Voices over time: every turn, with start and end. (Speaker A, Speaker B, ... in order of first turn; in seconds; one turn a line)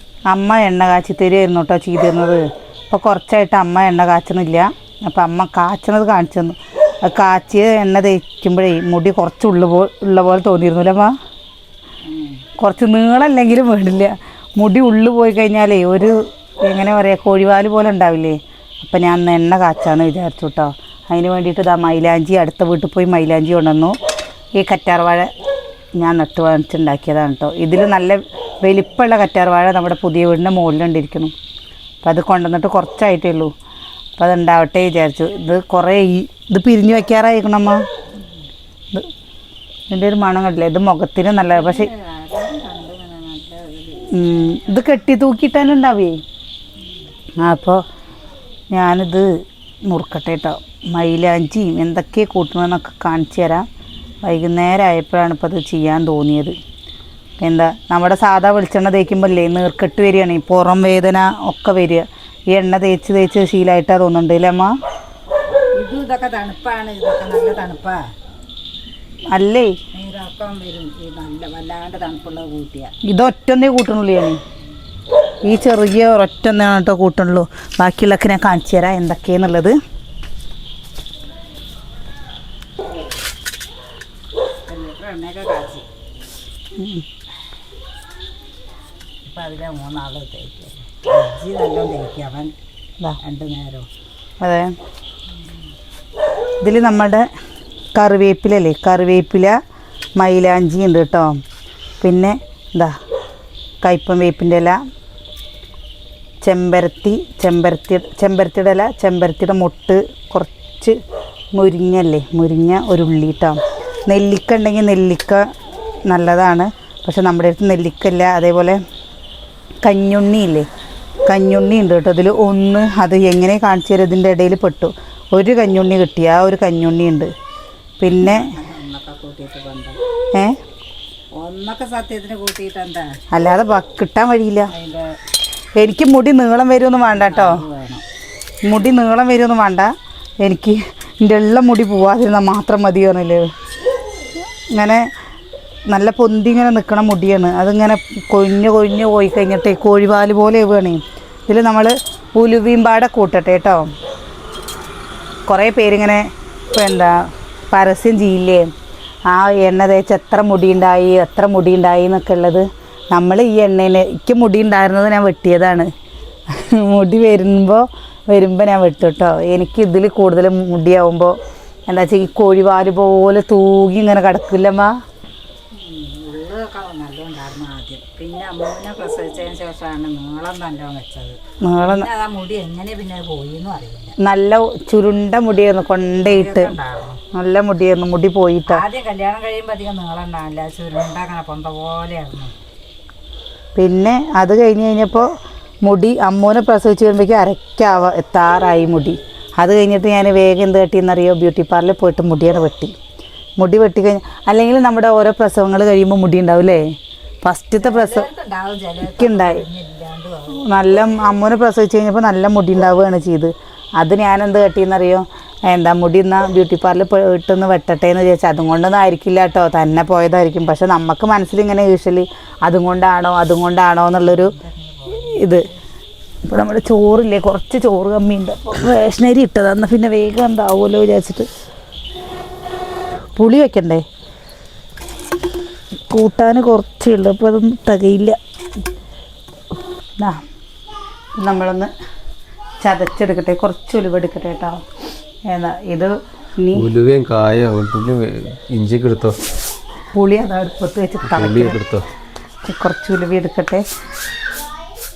Speaker A: 0.3-11.1
Speaker B: 12.1-12.4
Speaker A: 12.6-23.9
Speaker A: 24.6-25.3
Speaker A: 26.0-31.3
Speaker A: 32.0-33.5
Speaker A: 34.2-37.8
Speaker A: 39.9-41.9
Speaker B: 41.4-44.1
Speaker A: 44.1-46.2
Speaker A: 47.4-47.8
Speaker A: 48.7-53.7
Speaker A: 54.2-56.6
Speaker A: 57.4-64.8
Speaker B: 65.7-68.0
Speaker A: 69.3-69.7
Speaker B: 69.9-72.9
Speaker A: 73.0-74.4
Speaker A: 75.4-79.8
Speaker B: 84.7-85.8
Speaker A: 86.8-87.0
Speaker B: 89.2-92.5
Speaker B: 93.2-93.9
Speaker A: 94.4-94.7
Speaker A: 96.6-97.3
Speaker A: 98.0-99.6
Speaker A: 100.2-101.4
Speaker A: 102.0-102.9
Speaker A: 103.8-104.8
Speaker A: 106.4-111.0
Speaker A: 111.5-115.5
Speaker A: 116.1-118.8
Speaker A: 119.8-120.7
Speaker A: 121.3-127.3
Speaker A: 128.0-128.5
Speaker B: 128.2-130.0
Speaker B: 131.3-133.2
Speaker A: 133.3-134.7
Speaker B: 134.7-135.1
Speaker A: 135.8-137.6
Speaker B: 137.1-138.0
Speaker A: 138.6-143.5
Speaker A: 144.7-145.1
Speaker A: 145.9-153.9
Speaker A: 155.5-158.7
Speaker A: 159.3-165.9
Speaker A: 166.5-171.4
Speaker A: 171.9-175.0
Speaker B: 175.8-184.1
Speaker A: 181.6-182.1
Speaker A: 184.2-186.7
Speaker B: 186.2-187.2
Speaker A: 187.3-188.8
Speaker B: 188.7-192.5
Speaker A: 193.8-195.3
Speaker A: 195.8-202.9
Speaker A: 203.6-208.3
Speaker B: 207.8-210.6
Speaker A: 209.1-209.6
Speaker A: 210.5-224.5
Speaker B: 224.2-225.7
Speaker A: 225.1-225.7
Speaker A: 226.4-231.5
Speaker A: 233.3-234.0
Speaker A: 236.1-238.4
Speaker A: 241.4-241.9
Speaker A: 242.8-244.8
Speaker A: 245.5-246.9
Speaker C: 246.7-249.4
Speaker A: 250.1-251.8
Speaker C: 251.3-252.1
Speaker A: 252.6-253.8